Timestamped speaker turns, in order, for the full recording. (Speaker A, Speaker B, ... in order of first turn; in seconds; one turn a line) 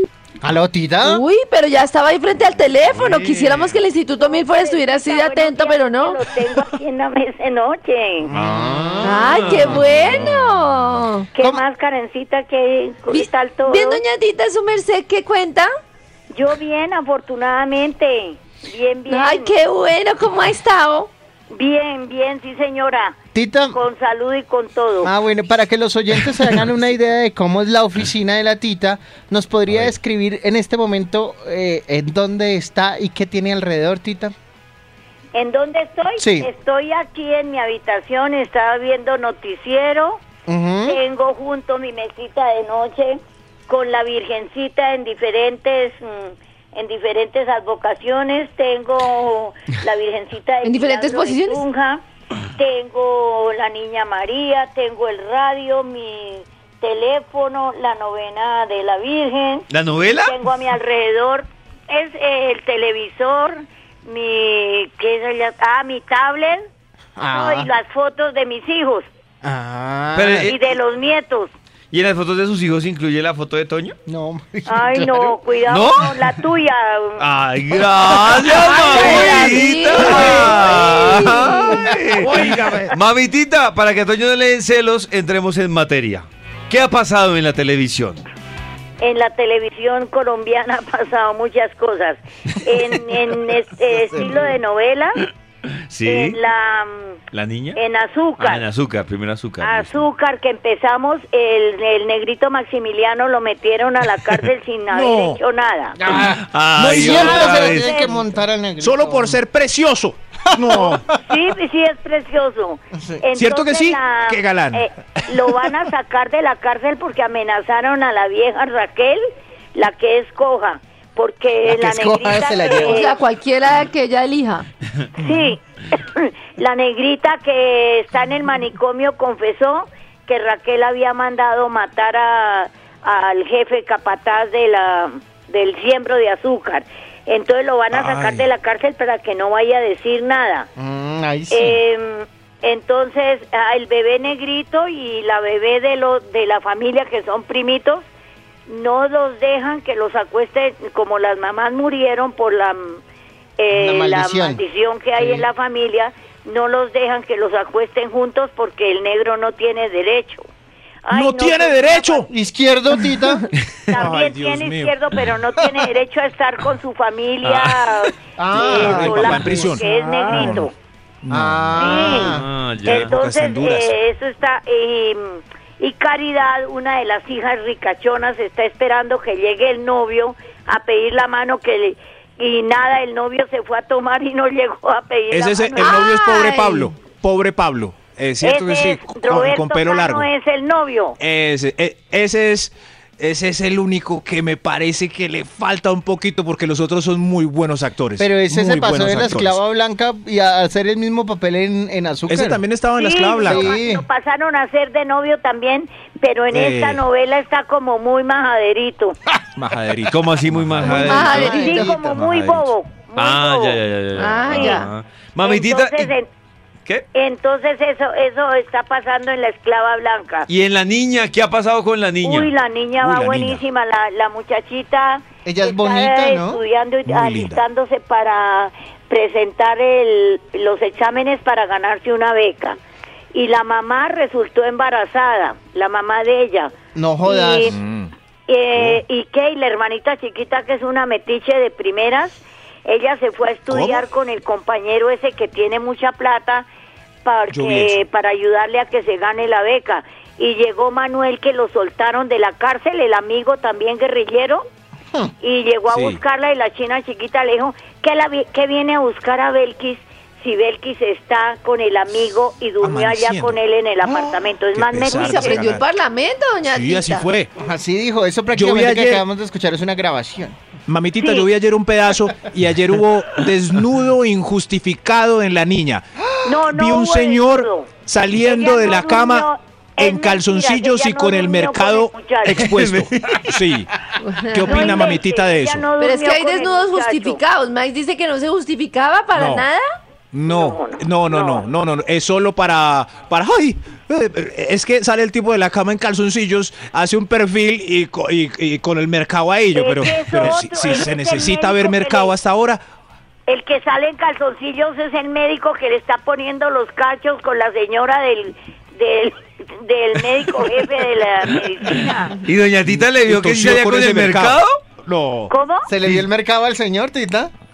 Speaker A: 0.4-1.2
Speaker B: 1.0-6.2
Speaker C: 2.9-3.7
Speaker D: 4.2-8.3
Speaker A: 8.2-9.8
Speaker C: 8.3-10.7
Speaker B: 9.0-11.3
Speaker D: 11.3-14.0
Speaker B: 13.1-15.7
Speaker D: 16.3-19.6
Speaker B: 19.1-21.1
Speaker D: 21.5-23.1
Speaker A: 23.3-23.8
Speaker D: 23.7-25.1
Speaker A: 25.0-34.3
Speaker D: 35.3-40.2
Speaker A: 36.2-36.5
Speaker A: 40.5-41.0
Speaker D: 40.9-43.2
Speaker D: 43.7-52.0
Speaker B: 50.6-51.6
Speaker D: 52.5-66.6
Speaker C: 59.7-60.4
Speaker A: 67.2-67.7
Speaker D: 67.3-69.1
Speaker A: 69.4-70.5
Speaker C: 70.1-70.6
Speaker D: 70.4-71.5
Speaker C: 71.9-74.0
Speaker A: 74.1-75.3
Speaker D: 74.7-77.2
Speaker C: 75.7-76.1
Speaker C: 77.2-88.2
Speaker B: 78.5-82.0
Speaker D: 78.9-79.5
Speaker D: 80.2-80.5
Speaker E: 80.2-80.5
Speaker E: 82.2-82.9
Speaker D: 89.0-95.2
Speaker A: 94.0-94.5
Speaker C: 95.9-96.4
Speaker D: 96.0-97.2
Speaker C: 97.3-97.8
Speaker D: 97.7-98.6
Speaker C: 98.4-100.0
Speaker D: 99.6-106.0
Speaker E: 104.9-105.4
Speaker C: 106.1-108.0
Speaker A: 106.1-106.4
Speaker E: 106.7-107.5
Speaker A: 106.9-109.4
Speaker D: 107.0-108.2
Speaker E: 108.8-111.0
Speaker A: 110.5-110.9
Speaker D: 110.7-119.2
Speaker A: 112.9-113.2
Speaker E: 113.3-115.4
Speaker D: 119.7-123.2
Speaker A: 121.6-123.1
Speaker B: 122.6-124.7
Speaker D: 125.1-140.7
Speaker E: 125.2-125.5
Speaker E: 137.9-138.4
Speaker A: 140.8-141.8
Speaker D: 141.5-148.1
Speaker D: 148.7-153.0
Speaker D: 153.6-160.4
Speaker A: 153.7-154.6
Speaker D: 161.1-162.3
Speaker E: 161.1-162.3
Speaker A: 162.3-163.4
Speaker D: 163.9-170.7
Speaker E: 163.9-164.9
Speaker C: 167.4-168.0
Speaker A: 168.4-170.5
Speaker E: 168.6-170.7
Speaker E: 171.2-172.0
Speaker A: 171.3-172.4
Speaker D: 171.7-186.1
Speaker C: 172.2-173.2
Speaker E: 172.9-173.9
Speaker E: 185.3-190.3
Speaker B: 185.8-186.9
Speaker D: 188.4-191.2
Speaker E: 191.2-199.6
Speaker A: 198.2-202.6
Speaker E: 202.3-203.7
Speaker D: 202.9-209.2
Speaker A: 203.4-204.0
Speaker E: 206.5-207.0
Speaker E: 209.5-211.3
Speaker C: 210.1-211.6
Speaker B: 210.8-211.9
Speaker A: 210.9-212.3
Speaker D: 211.4-213.8
Speaker C: 213.2-216.1
Speaker B: 214.1-214.9
Speaker D: 214.4-214.8
Speaker D: 215.4-216.3
Speaker D: 217.1-220.5
Speaker C: 220.5-222.5
Speaker D: 222.2-232.8
Speaker E: 223.0-223.6
Speaker A: 225.4-226.6
Speaker E: 227.0-227.6
Speaker D: 233.3-237.8
Speaker A: 236.9-237.7
Speaker E: 237.7-238.1
Speaker D: 238.5-246.7
Speaker E: 243.7-244.1
Speaker D: 247.2-254.6
Speaker E: 247.5-248.0
Speaker D: 255.4-265.7
Speaker E: 255.9-256.2
Speaker E: 262.8-263.6
Speaker A: 264.0-264.4
Speaker E: 264.7-265.9
Speaker B: 265.2-267.3
Speaker E: 266.6-267.5
Speaker A: 267.6-270.6
Speaker E: 268.5-269.2
Speaker E: 270.9-276.0
Speaker D: 271.2-271.5
Speaker D: 276.4-282.7
Speaker E: 276.6-279.5
Speaker E: 280.0-283.9
Speaker C: 282.6-283.7
Speaker B: 284.2-285.2
Speaker E: 284.5-285.9
Speaker D: 284.6-287.4
Speaker B: 286.0-289.8
Speaker E: 289.3-289.7
Speaker E: 290.3-302.8
Speaker D: 290.5-291.7
Speaker D: 299.7-302.4
Speaker D: 303.5-312.4
Speaker C: 312.3-314.8
Speaker E: 312.9-315.5
Speaker D: 315.5-315.9
Speaker A: 315.9-317.5